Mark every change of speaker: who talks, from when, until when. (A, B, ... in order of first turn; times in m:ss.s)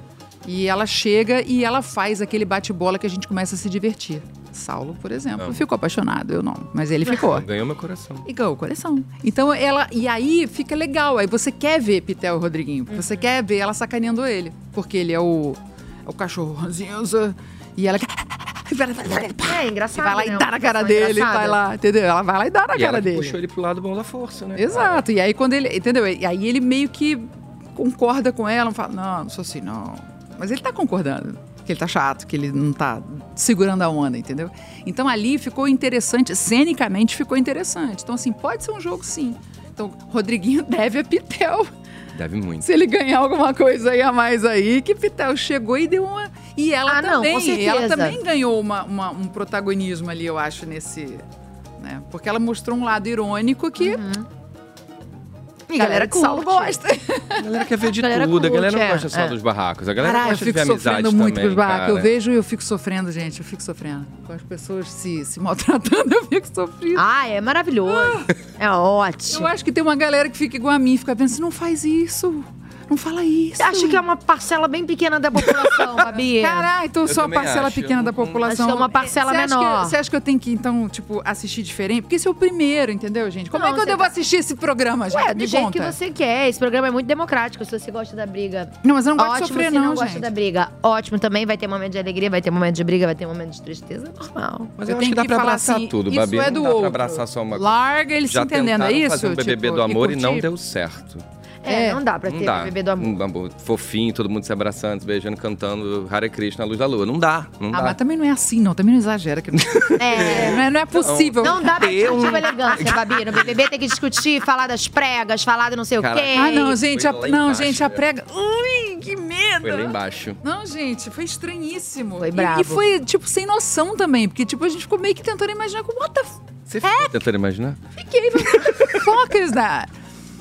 0:00.4-0:07.4 A
0:07.1-0:08.2 B
0:08.2-0:23.4 A
0:12.9-0:13.2 C
0:19.4-0:21.6 C
0:22.7-0:25.0 B
0:24.6-0:41.7 A
0:42.1-0:42.6 B
0:42.6-0:51.2 A
0:46.9-0:48.2 C
0:51.8-0:54.0 A
0:53.8-0:54.3 C
0:55.7-0:56.8 C
0:55.8-0:57.4 A
0:57.4-1:02.1 B
0:58.0-0:59.4 C
1:00.0-1:07.0 A
1:06.9-1:09.5 C
1:07.8-1:08.3 A
1:09.3-1:14.0 A
1:13.6-1:16.7 C
1:15.4-1:26.0 A
1:17.0-1:18.5 B
1:18.4-1:20.0 C
1:23.5-1:24.1 C
1:25.1-1:34.7 C
1:28.8-1:30.3 A
1:34.8-1:37.8 B
1:34.8-1:40.5 A
1:38.3-1:41.2 B
1:41.6-1:43.1 C
1:41.7-1:42.0 A
1:42.2-1:48.0 B
1:47.7-1:51.7 A
1:49.8-1:53.5 B
1:50.0-1:50.6 C
1:51.4-1:56.7 C
1:56.0-1:58.0 B
1:56.3-2:07.1 A
1:59.6-2:00.4 B
2:02.2-2:02.8 C
2:06.7-2:07.8 B
2:08.0-2:09.9 A